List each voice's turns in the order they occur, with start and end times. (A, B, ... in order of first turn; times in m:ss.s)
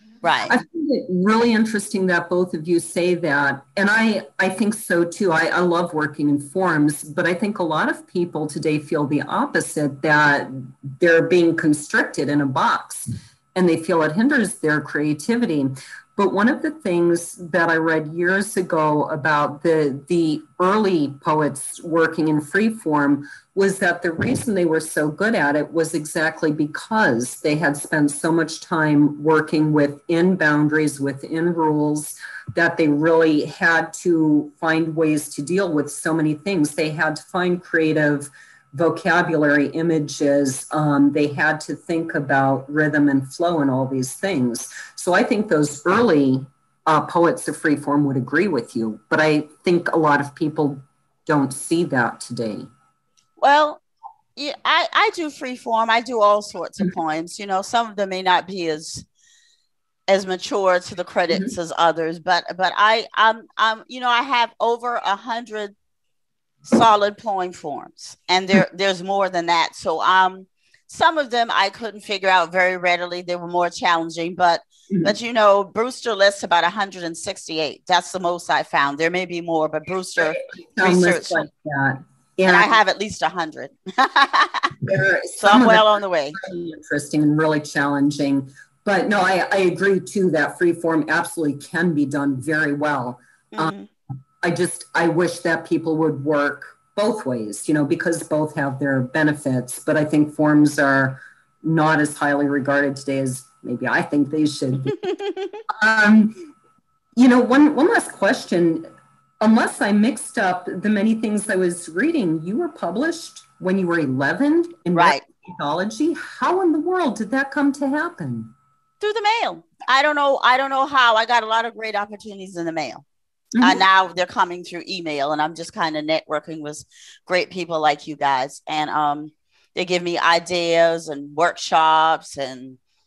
0:00.2-0:00.6 A
0:00.5-0:52.7 B
0:53.4-0:53.8 A
0:54.4-0:59.0 A
1:00.1-1:05.7 A
1:06.7-1:21.4 A
1:20.2-1:22.7 B
1:22.5-1:24.7 A
1:24.8-1:33.7 B
1:25.4-1:26.4 A
1:33.5-1:33.9 A
1:34.4-1:45.0 B
1:44.9-1:45.6 A
1:45.8-1:46.4 B
1:47.2-1:48.9 B
1:49.4-1:58.5 B
1:54.9-1:55.2 A
1:59.0-2:03.0 A
2:03.6-2:03.8 B
2:03.6-2:12.8 A